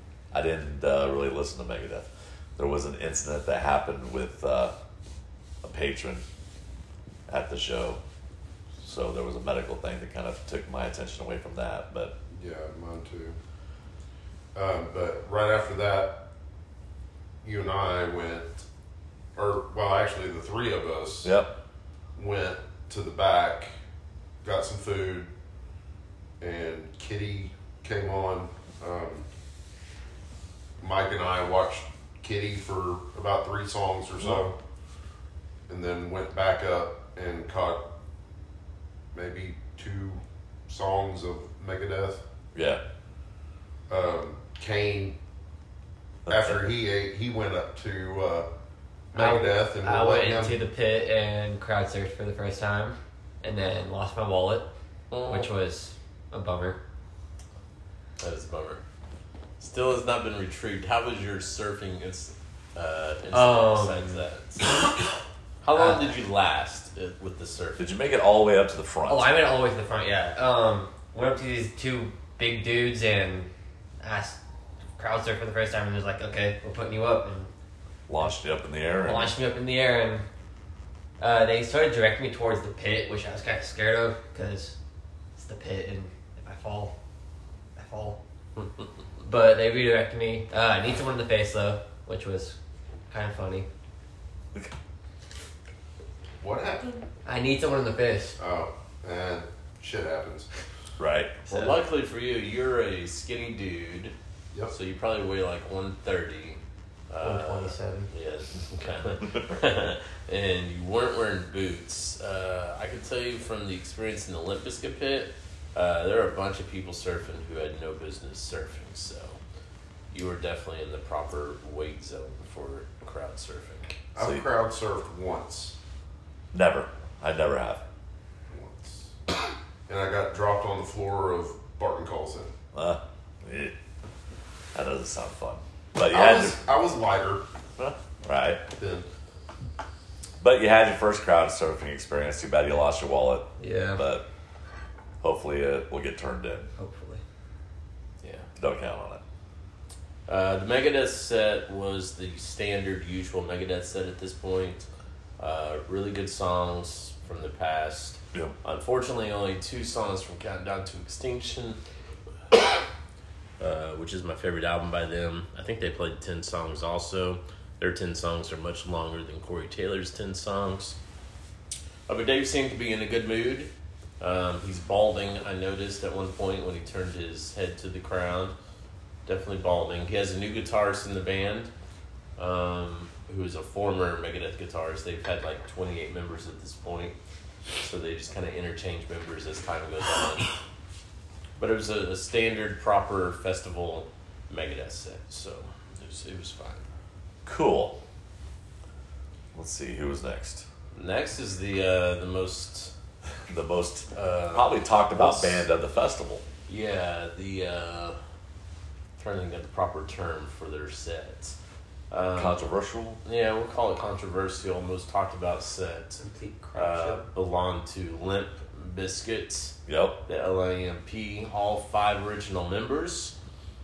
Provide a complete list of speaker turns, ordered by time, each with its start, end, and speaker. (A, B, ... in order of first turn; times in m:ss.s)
0:00.3-0:04.7 A
0:05.6-0:06.2 A
0:07.3-0:08.0 A
0:08.8-0:12.2 A
0:12.3-0:13.4 B
0:14.6-0:16.3 B
0:17.4-0:18.6 B
0:19.4-0:21.4 B
0:21.2-0:21.6 A
0:22.2-0:23.7 B
0:24.4-0:25.3 B
0:26.4-0:29.3 B
0:30.8-0:34.6 B
0:35.7-0:37.9 B
0:39.1-0:42.2 B
0:42.5-0:42.8 A
0:43.9-0:45.2 B
0:46.3-0:46.6 A
0:46.3-0:48.5 B
0:49.1-0:50.6 B
0:49.2-0:54.7 C
0:55.1-0:55.5 D
0:55.3-0:56.8 C
0:58.2-0:58.8 D
0:59.6-1:04.9 D
1:03.3-1:04.2 C
1:05.6-1:07.9 D
1:05.7-1:06.1 C
1:07.8-1:09.3 A
1:09.1-1:14.4 C
1:15.0-1:17.5 C
1:18.1-1:19.4 A
1:19.0-1:20.3 C
1:21.2-1:24.8 C
1:25.4-1:26.9 C
1:27.8-1:28.2 C
1:29.2-1:32.6 C
1:33.1-1:33.7 C
1:36.4-1:37.0 B
1:37.2-1:38.4 C
1:38.4-1:40.5 B
1:41.0-1:41.4 A
1:41.5-1:41.8 C
1:41.5-1:44.2 D
1:44.7-1:59.4 D
1:47.2-1:48.1 C
2:00.1-2:04.0 D
2:04.2-2:05.8 B
2:04.2-2:04.4 A
2:06.5-2:07.8 A
2:08.5-2:09.2 B
2:09.9-2:12.5 B
2:12.7-2:13.8 A
2:14.7-2:16.6 A
2:16.1-2:17.4 B
2:17.8-2:18.6 A
2:18.8-2:19.1 B
2:20.4-2:24.2 A
2:23.6-2:24.0 C
2:25.2-2:26.7 A
2:26.8-2:27.2 C
2:28.2-2:28.5 D
2:28.6-2:29.2 A
2:30.3-2:34.9 D
2:35.4-2:41.8 D
2:43.6-2:51.0 D
2:52.1-2:58.6 D
2:59.3-3:01.7 D
3:02.4-3:07.2 D
3:07.8-3:10.5 D
3:11.6-3:16.9 D
3:17.4-3:18.0 A
3:19.5-3:20.7 A
3:20.9-3:22.9 D
3:23.5-3:26.4 A
3:24.1-3:25.7 D
3:26.7-3:28.2 D
3:29.2-3:31.6 D
3:32.1-3:32.6 D
3:32.4-3:33.2 A
3:33.2-3:36.2 D
3:36.2-3:37.3 C
3:36.8-3:43.4 D
3:39.9-3:40.2 A